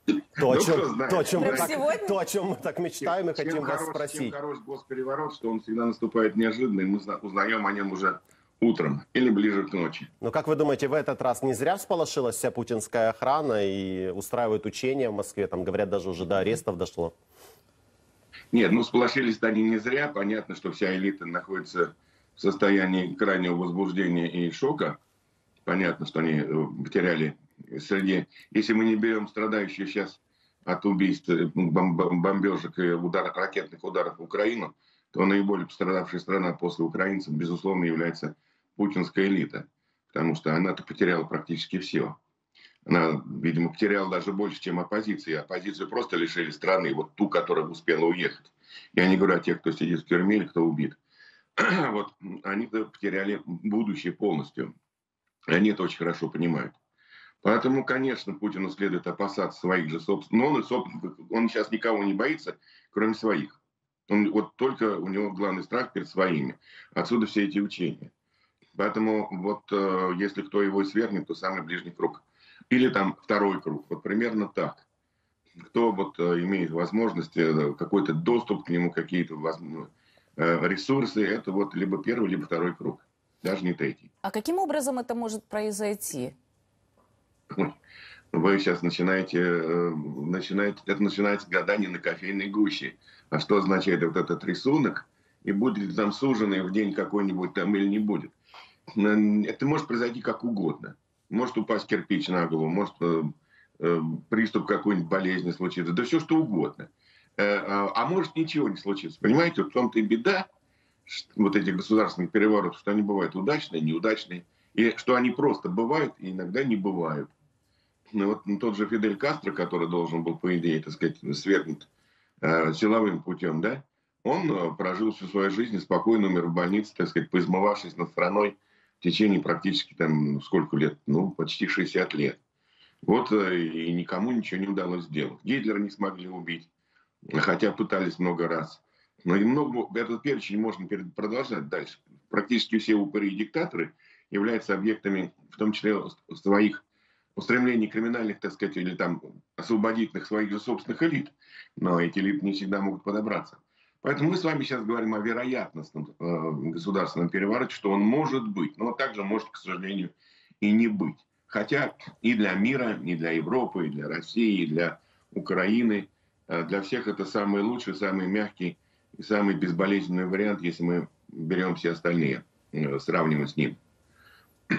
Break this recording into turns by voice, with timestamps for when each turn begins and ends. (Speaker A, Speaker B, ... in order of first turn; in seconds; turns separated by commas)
Speaker A: 0.4-1.8, Speaker B: 0.4-4.4, Speaker C: 1.3-2.2, Speaker A: 3.0-10.1, Speaker B: 10.2-17.1, Speaker A: 18.5-25.0, Speaker A: 25.6-42.2, Speaker A: 42.8-51.0, Speaker A: 51.6-54.7, Speaker A: 55.5-56.8, Speaker A: 57.4-68.1, Speaker A: 68.8-74.9, Speaker A: 75.7-84.1, Speaker C: 84.2-86.3, Speaker A: 88.3-98.3, Speaker A: 98.9-110.5, Speaker A: 111.1-117.3, Speaker A: 118.1-121.9, Speaker A: 122.4-132.4, Speaker A: 133.0-136.7, Speaker A: 137.3-146.8, Speaker A: 147.3-173.8